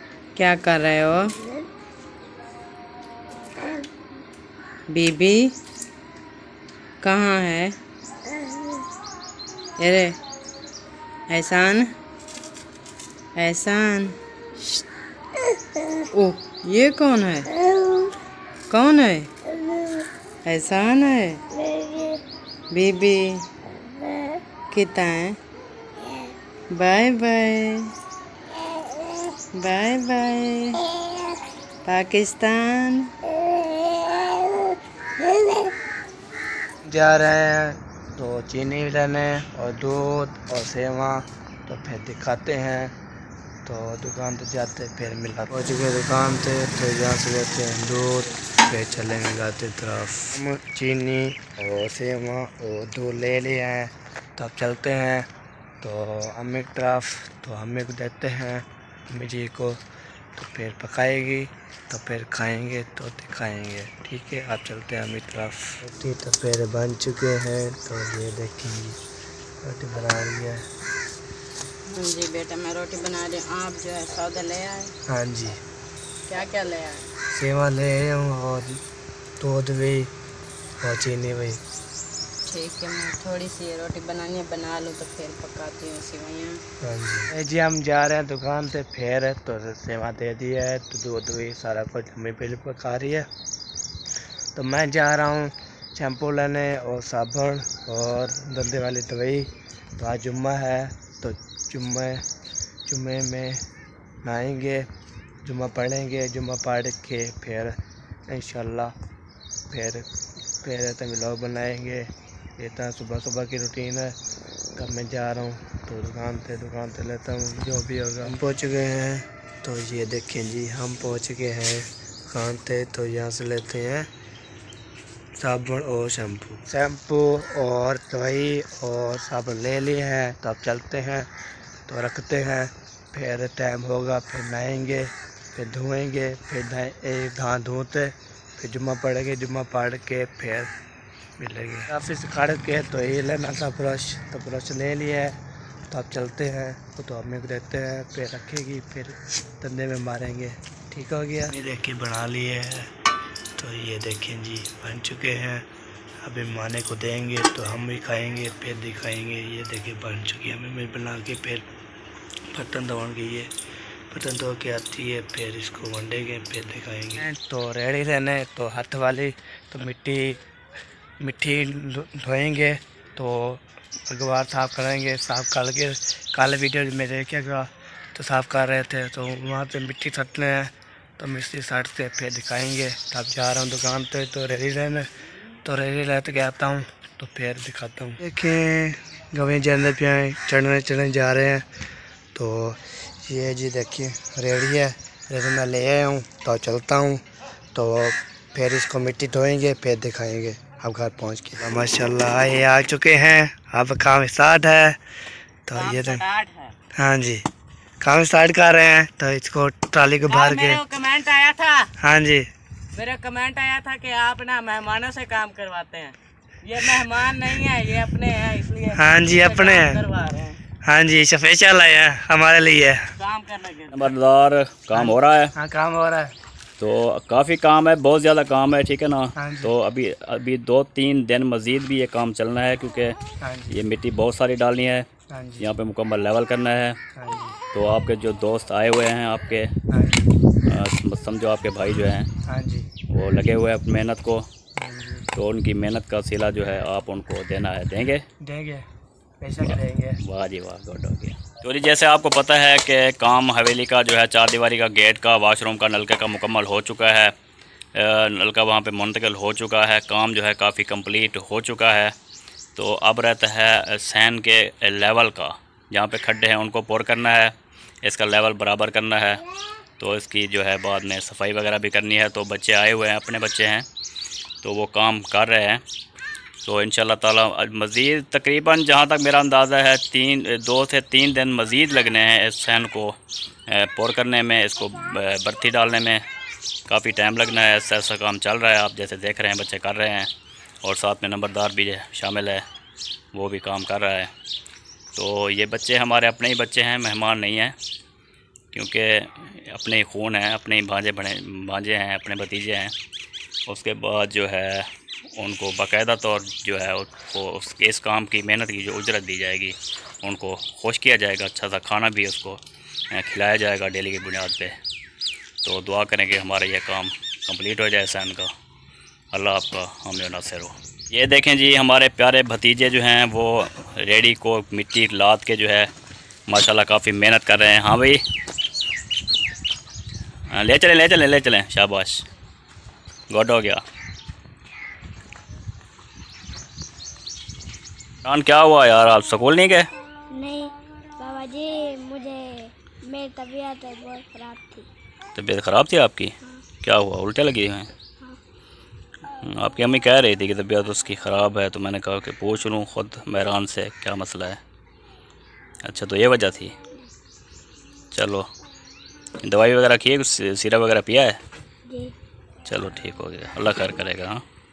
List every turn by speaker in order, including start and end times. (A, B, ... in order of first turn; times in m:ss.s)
0:00.3-0:01.3 A
0:04.9-0:05.6 A
0:07.0-0:07.8 A
0:09.8-0:10.2 A
0:11.3-0:11.9 A
0:13.4-0:14.8 A
0:15.9-0:18.1 A
0:18.7-0:19.8 A
0:20.4-0:22.2 A
0:22.7-0:23.5 A
0:24.7-0:25.4 A
0:26.7-0:27.9 A
0:29.4-0:31.2 A
0:31.8-0:33.3 A
0:36.8-0:43.0 B
0:43.6-0:55.3 B
0:55.8-0:59.8 B
1:00.4-1:09.0 B
1:09.6-1:10.6 B
1:11.9-1:14.9 A
1:15.1-1:15.6 B
1:16.3-1:17.1 A
1:17.3-1:18.8 B
1:19.4-1:20.1 B
1:20.8-1:21.6 B
1:22.5-1:26.6 A
1:26.8-1:33.3 B
1:34.6-1:42.2 B
1:42.9-1:43.6 B
1:44.2-1:44.9 B
1:45.4-1:47.8 B
1:48.3-1:48.9 B
1:49.7-1:50.1 B
1:50.6-1:54.2 B
1:54.8-2:04.1 B
2:05.4-2:11.3 B
2:11.9-2:20.7 B
2:21.4-2:25.4 B
2:25.9-2:32.9 B
2:33.6-2:35.7 B
2:36.2-2:41.6 B
2:42.5-2:43.5 B
2:44.1-2:50.4 B
2:51.2-3:05.1 B
3:05.6-3:11.7 B
3:12.3-3:17.2 B
3:17.7-3:25.0 B
3:25.7-3:26.2 B
3:25.7-3:26.8 C
3:27.0-3:27.5 B
3:28.0-3:30.8 B
3:30.3-3:31.9 C
3:32.0-3:32.5 B
3:32.9-3:40.6 C
3:39.0-3:40.0 B
3:40.8-3:43.1 B
3:43.2-3:44.1 C
3:43.9-3:45.5 D
3:44.9-3:46.3 B
3:46.8-3:53.2 D
3:49.4-3:49.7 B
3:53.4-3:53.8 B
3:53.7-3:55.1 D
3:55.3-3:55.7 B
3:55.6-3:57.0 D
3:57.2-3:57.6 B
3:57.7-3:59.7 D
3:59.9-4:00.4 B
4:00.7-4:02.3 D
4:02.5-4:02.9 B
4:03.1-4:04.5 D
4:04.8-4:05.3 B
4:05.4-4:08.2 D
4:08.4-4:08.9 B
4:09.4-4:10.2 B
4:09.6-4:17.4 D
4:18.0-4:22.2 D
4:22.8-4:29.4 D
4:30.0-4:33.9 D
4:34.6-4:35.8 D
4:36.6-4:43.2 D
4:43.7-4:46.2 D
4:46.9-4:50.3 D
4:50.8-4:52.6 D
4:53.3-4:54.3 D
4:55.1-4:57.8 D
4:58.7-5:02.9 D
5:03.7-5:14.8 D
5:15.6-5:18.5 D
5:19.3-5:25.9 D
5:26.5-5:28.2 D
5:30.5-5:32.3 D
5:33.3-5:33.8 D
5:38.2-5:39.9 D
5:40.3-5:44.9 E
5:45.4-5:47.9 D
5:49.4-5:54.6 D
5:55.8-5:56.8 D
5:58.1-5:58.5 D
5:59.4-6:01.4 D
6:01.9-6:02.2 E
6:02.7-6:04.4 D